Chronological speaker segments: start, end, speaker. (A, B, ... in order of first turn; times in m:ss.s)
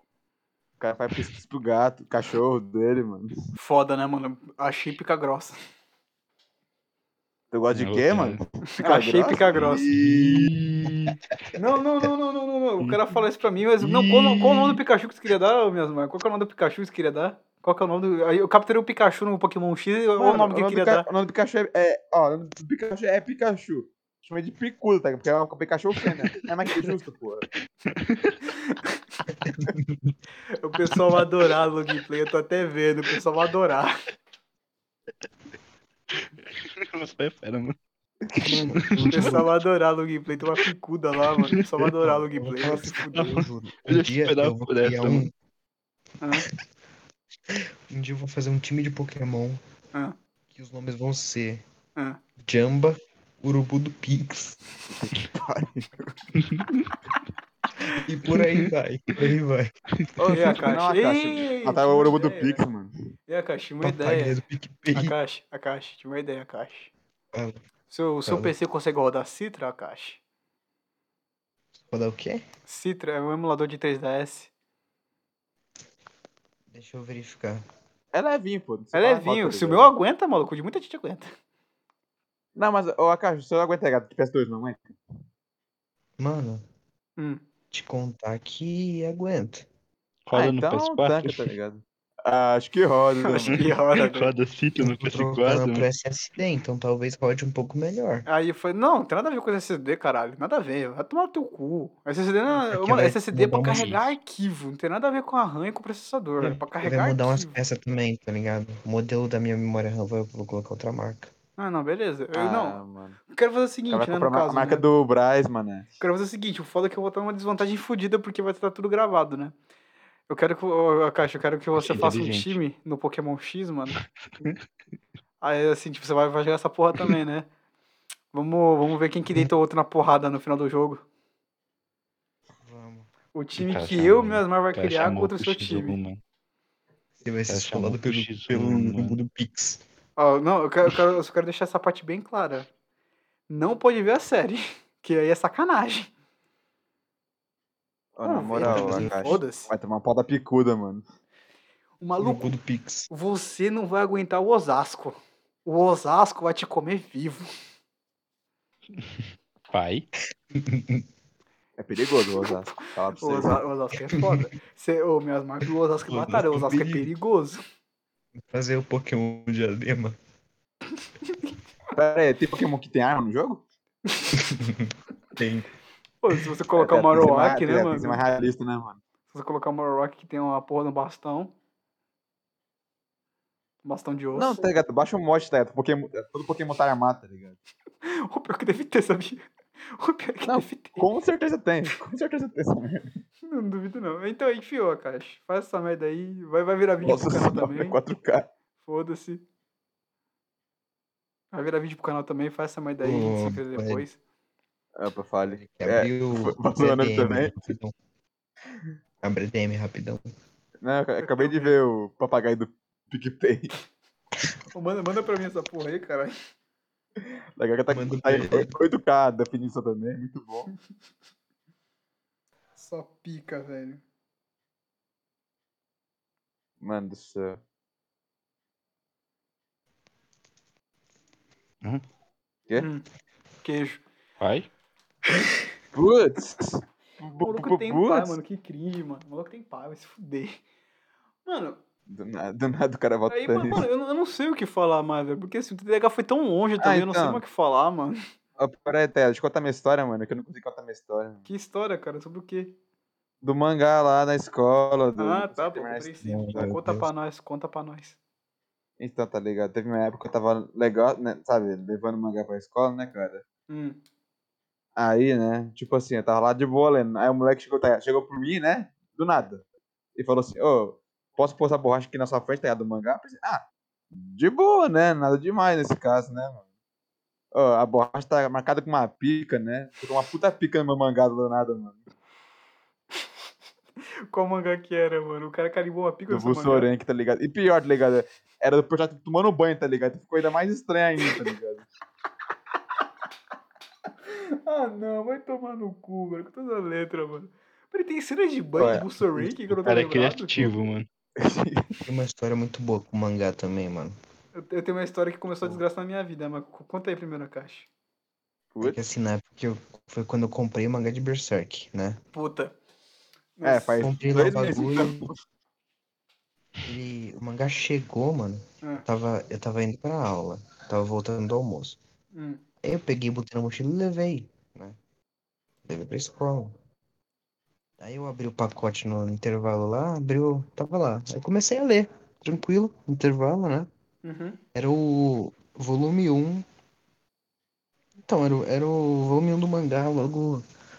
0:00.8-0:03.3 A
0:03.6-0:05.6 B
0:07.5-0:10.5 A
0:07.7-0:08.4 C
0:08.7-0:09.8 B
0:09.5-0:11.2 C
0:11.5-0:21.0 B
0:13.8-0:14.8 C
0:20.2-0:27.5 A
0:27.9-0:28.4 C
0:28.5-0:29.0 B
0:29.4-0:30.1 D
0:30.6-0:33.9 B
0:36.1-0:37.7 C
0:38.4-0:39.5 D
0:38.8-0:39.4 C
0:39.1-0:43.4 B
0:42.0-0:45.3 D
0:43.1-0:45.3 C
0:46.2-0:46.5 B
0:47.5-0:49.6 D
0:50.5-0:51.6 D
0:52.4-0:54.6 D
0:54.9-0:56.2 A
0:56.4-0:56.9 C
0:57.9-0:59.7 D
0:58.3-0:58.7 C
1:00.2-1:02.9 A
1:00.3-1:02.6 B
1:03.3-1:04.4 B
1:03.8-1:05.1 D
1:04.9-1:06.9 B
1:07.9-1:10.2 B
1:08.2-1:08.5 D
1:11.8-1:12.4 D
1:12.7-1:14.5 B
1:16.7-1:17.6 D
1:18.1-1:19.9 A
1:18.9-1:21.3 B
1:22.6-1:24.9 A
1:26.2-1:26.6 D
1:27.7-1:29.6 D
1:30.3-1:31.5 C
1:30.3-1:33.7 A
1:33.2-1:34.3 B
1:33.6-1:35.9 C
1:34.8-1:38.2 D
1:38.2-1:47.6 B
1:42.5-1:44.1 D
1:46.4-1:51.3 D
1:51.6-1:52.8 B
1:52.3-1:53.2 A
1:53.3-1:54.8 B
1:53.9-1:55.9 A
1:56.0-1:59.5 B
2:00.3-2:04.0 B
2:01.8-2:02.6 C
2:04.0-2:04.6 C
2:05.4-2:07.5 B
2:08.3-2:11.0 B
2:12.6-2:13.1 D
2:13.3-2:16.0 B
2:13.6-2:16.2 C
2:17.2-2:19.8 D
2:17.5-2:19.2 C
2:20.2-2:22.7 B
2:23.5-2:26.1 B
2:28.2-2:31.0 A
2:28.2-2:29.7 B
2:28.6-2:29.4 D
2:32.0-2:32.6 B
2:32.2-2:33.1 D
2:33.1-2:37.5 B
2:39.0-2:40.1 C
2:40.5-2:41.0 D
2:41.8-2:43.6 A
2:43.2-2:47.6 B
2:46.1-2:47.1 D
2:48.4-2:50.2 D
2:51.9-2:53.6 A
2:54.3-2:55.6 D
2:56.2-2:58.2 B
2:56.8-2:59.0 A
2:59.3-3:01.5 B
3:03.8-3:04.7 B
3:04.3-3:07.6 A
3:08.0-3:11.0 B
3:10.4-3:13.2 A
3:13.5-3:18.0 B
3:17.0-3:18.5 A
3:18.8-3:19.4 B
3:21.5-3:24.2 B
3:23.0-3:24.0 D
3:25.0-3:27.7 A
3:25.5-3:27.9 D
3:29.2-3:30.2 D
3:30.8-3:33.7 A
3:31.2-3:31.8 B
3:34.7-3:36.3 B
3:37.6-3:40.7 A
3:37.9-3:38.7 D
3:42.8-3:44.0 B
3:46.8-3:47.6 A
3:52.8-3:53.0 B
3:53.6-3:54.0 B
3:54.4-3:54.7 C
3:55.9-3:58.4 A
3:57.4-4:00.6 B
4:01.4-4:01.8 B
4:02.1-4:03.8 A
4:03.3-4:08.2 B
4:06.8-4:07.4 A
4:08.6-4:11.4 A
4:11.4-4:12.7 B
4:13.4-4:16.7 A
4:15.2-4:18.2 B
4:16.2-4:17.1 D
4:19.0-4:23.4 A
4:23.7-4:24.0 B
4:25.0-4:29.6 A
4:30.2-4:36.6 A
4:37.5-4:42.0 A
4:44.3-4:46.9 B
4:46.3-4:51.8 A
4:54.2-5:00.7 B
4:58.8-4:59.5 A
4:59.7-5:01.1 C
5:01.4-5:01.9 A
5:02.0-5:04.1 D
5:04.6-5:07.9 B
5:08.7-5:09.0 A
5:08.8-5:12.2 D
5:12.3-5:12.7 B
5:13.6-5:14.8 B
5:13.6-5:15.3 A
5:14.0-5:15.3 D
5:16.8-5:22.0 D
5:22.3-5:22.6 B
5:22.8-5:25.0 D
5:25.8-5:26.7 D
5:28.0-5:33.9 D
5:34.2-5:34.6 B
5:34.7-5:36.6 D
5:38.2-5:40.6 D